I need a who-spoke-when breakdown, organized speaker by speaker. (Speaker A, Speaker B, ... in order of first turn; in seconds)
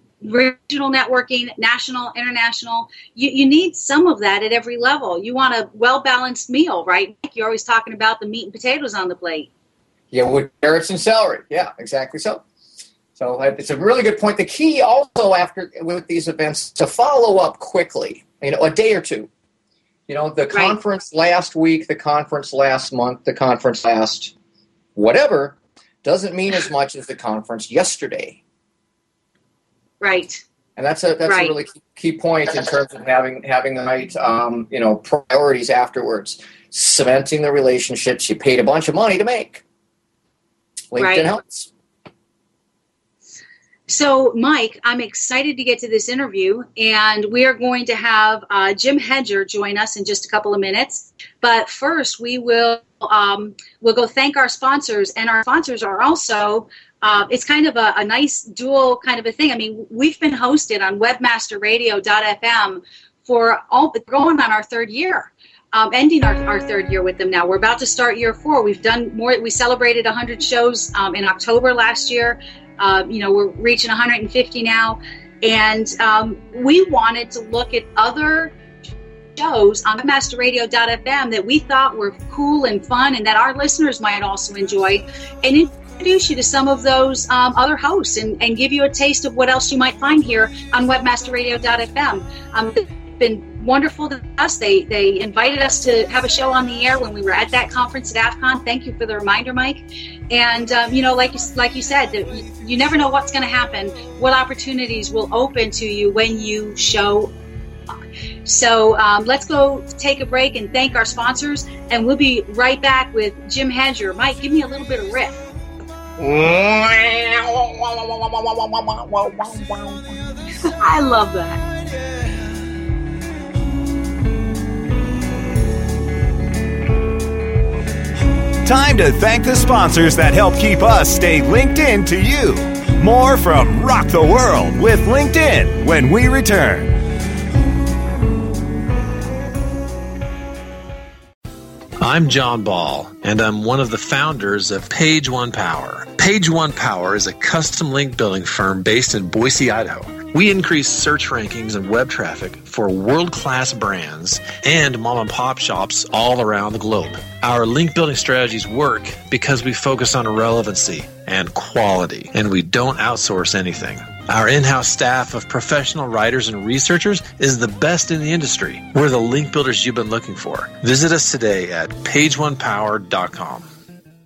Speaker A: 0.2-9.5, 30.0-30.4, 31.2-31.5, 41.0-41.3, 43.9-78.6, 79.4-107.3, 108.4-115.4, 120.8-121.6
Speaker B: 10.1-12.4, 13.2-19.3, 20.1-24.3, 24.9-28.4, 30.8-39.6, 40.9-41.7, 116.2-120.1
Speaker C: 128.6-136.9
Speaker D: 142.0-173.7